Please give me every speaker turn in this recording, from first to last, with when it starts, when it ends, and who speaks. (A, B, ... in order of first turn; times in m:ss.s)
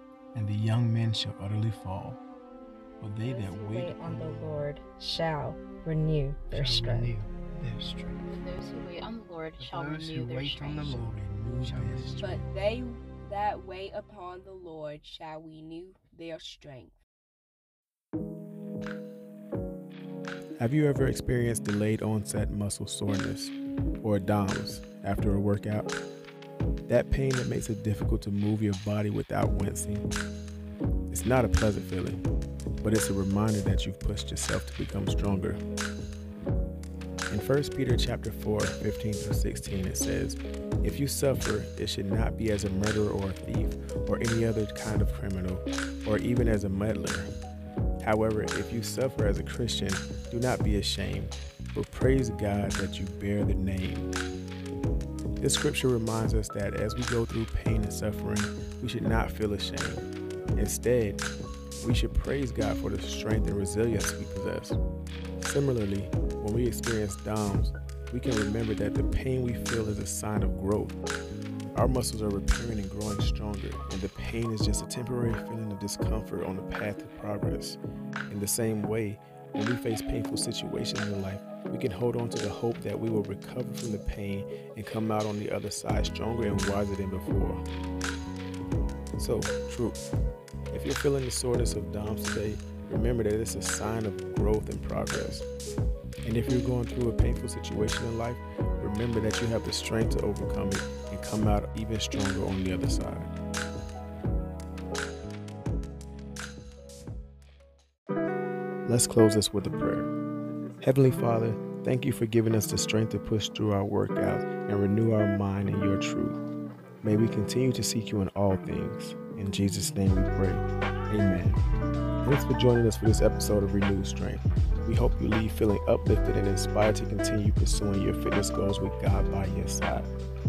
0:00.3-0:02.2 A
0:03.0-0:04.7 A
0:03.2-0:07.1 B
0:06.5-0:08.4 C
0:08.3-0:11.0 D
0:09.6-0:12.2 C
0:10.8-0:12.4 A
0:12.2-0:17.0 E
0:20.6-0:25.9 A
0:26.9-0:30.1 A
0:31.1-0:32.2 A
0:32.8-0:35.6 A
0:37.3-0:47.3 A
0:48.0-0:54.1 A
0:55.4-1:01.2 A
1:01.8-1:04.8 A
1:05.4-1:11.0 A
1:11.7-1:27.6 A
1:29.2-1:30.0 A
1:30.7-1:35.4 A
1:36.2-1:43.3 A
1:48.8-1:50.1 A
1:50.8-1:56.4 A
1:57.0-2:01.6 A
2:02.2-2:10.1 A